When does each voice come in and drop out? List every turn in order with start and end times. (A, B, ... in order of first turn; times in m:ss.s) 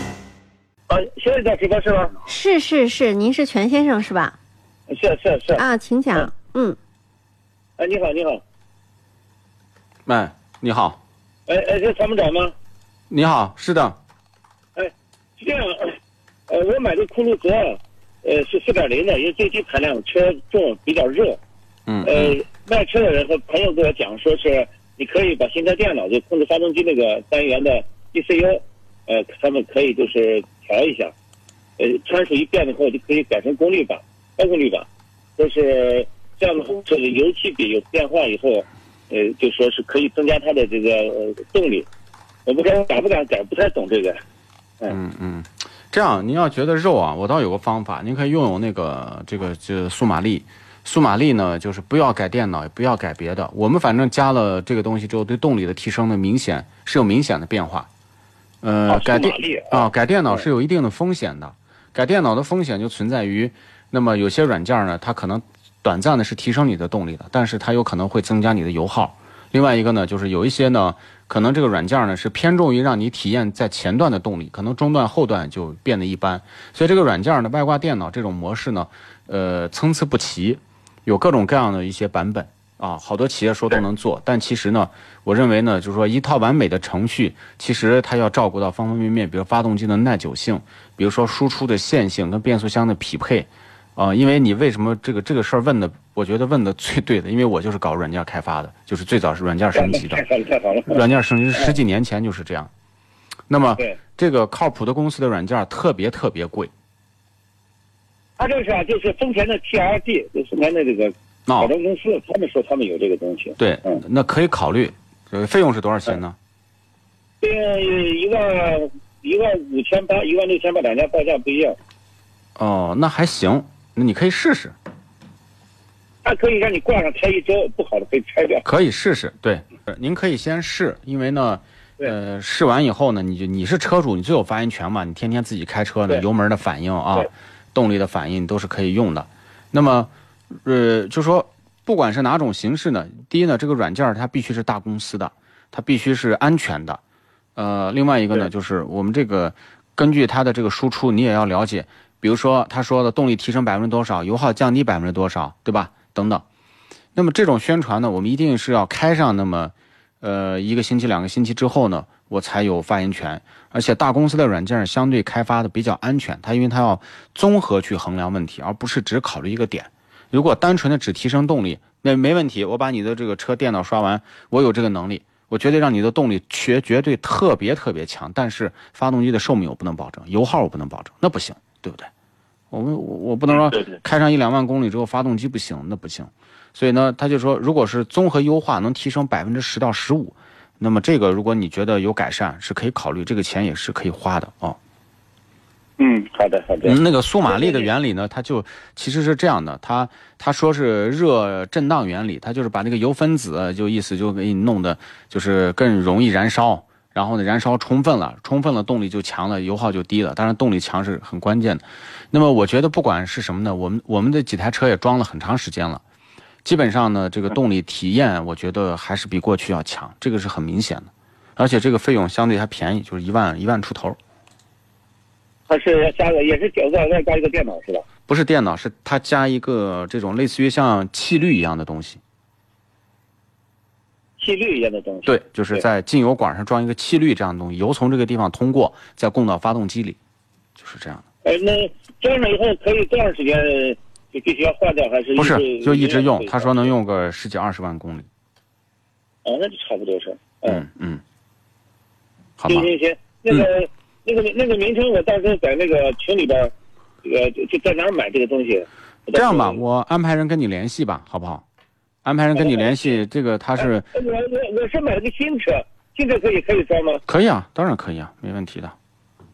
0:00.9-0:02.2 A
0:02.3-0:04.3 B
0:04.9-0:06.3 A
0:05.6-0:06.8 B
0:07.8-0:08.4 A
0:10.1-0:11.0 C
0:11.5-0:12.5 A
0:13.1-0:14.0 C
0:14.8-0:21.4 A
0:21.9-0:22.4 C
0:22.0-0:31.1 A
0:31.8-0:41.9 A
0:42.4-0:44.2 A
0:44.9-0:57.9 C
0:58.6-1:40.2 C
0:58.9-1:00.4 A
1:39.7-1:41.0 A
1:40.9-1:42.7 C
1:43.5-1:46.7 C
1:48.4-1:54.0 A
1:51.5-1:51.7 C
1:53.6-1:56.4 C
1:57.4-2:01.8 A
2:02.6-2:04.7 C
2:06.2-2:08.6 A
2:08.6-2:20.1 C
2:20.6-2:27.0 C
2:27.6-2:36.4 C
2:37.1-3:02.1 C
3:02.7-3:14.8 C
3:03.5-3:04.0 A
3:16.0-3:17.9 A
3:16.8-3:36.0 C
3:36.6-3:44.2 C
3:45.7-3:48.0 A
3:48.3-3:52.2 C
3:54.4-3:55.8 A
3:55.2-4:00.2 C
4:00.8-4:01.2 C
4:01.4-4:06.9 A
4:05.4-4:08.3 C
4:09.4-4:10.8 A
4:10.6-4:11.2 C
4:12.6-4:12.9 C
4:12.7-4:19.8 A
4:19.3-4:21.6 C
4:22.2-4:24.1 C
4:22.6-4:23.2 A
4:23.8-4:27.2 A
4:27.2-4:28.9 C